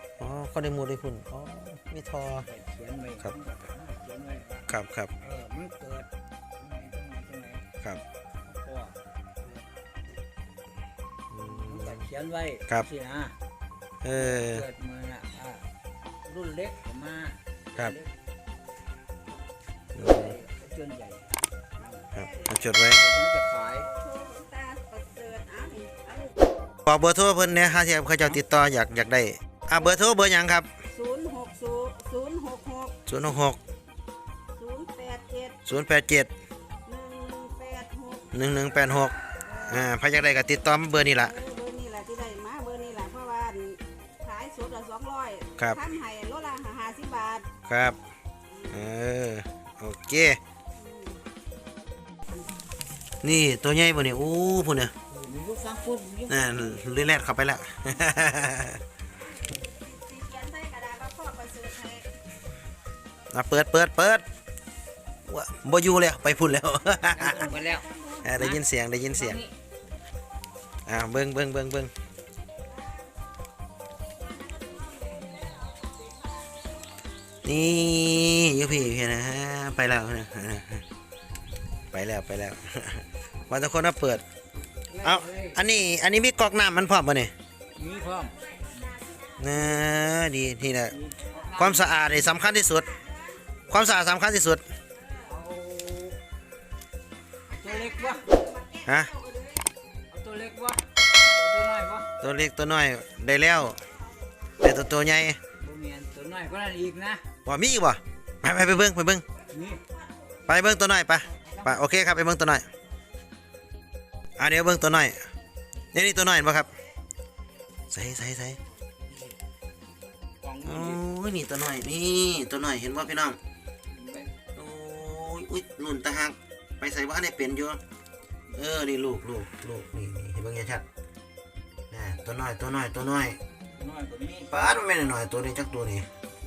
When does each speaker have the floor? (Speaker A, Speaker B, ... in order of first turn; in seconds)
Speaker A: 0.2-2.5, 4.7-5.1, 11.3-11.9, 14.0-14.7, 20.0-20.3, 22.1-23.0, 26.8-30.7, 33.0-33.6, 35.6-36.3, 38.3-41.4, 45.6-45.9, 47.6-48.0, 48.7-50.4, 53.2-54.9, 56.3-58.8, 63.3-64.2, 65.3-67.5, 68.2-69.4, 70.8-71.9, 77.4-80.8, 81.9-84.2, 85.0-87.3, 89.4-91.0, 91.5-93.0, 93.7-94.6, 98.8-99.2, 102.2-103.8, 104.6-105.4, 107.4-109.2, 110.4-112.7, 114.4-115.3, 115.9-116.7, 117.9-118.6, 120.6-123.4, 124.5-127.8, 128.5-130.8, 131.9-133.4, 134.5-136.1
Speaker B: 2.4-4.7, 5.2-7.6, 8.4-9.7, 11.3-13.3, 14.1-15.7, 16.2-18.1, 19.9-22.1, 22.9-24.0, 55.1-56.8, 67.1-68.6, 69.1-69.5, 84.9-85.6, 87.7-88.9, 90.9-92.0, 95.2-96.2, 97.5-98.4, 100.1-102.1, 105.6-107.2, 109.5-109.8, 111.2-111.8, 120.4-121.0, 123.9-124.4, 133.7-134.5
Speaker C: 24.0-26.2, 30.9-32.9, 34.6-35.5, 36.9-38.2, 41.4-47.4, 50.8-51.2, 59.5-62.1, 74.3-76.1, 98.2-99.6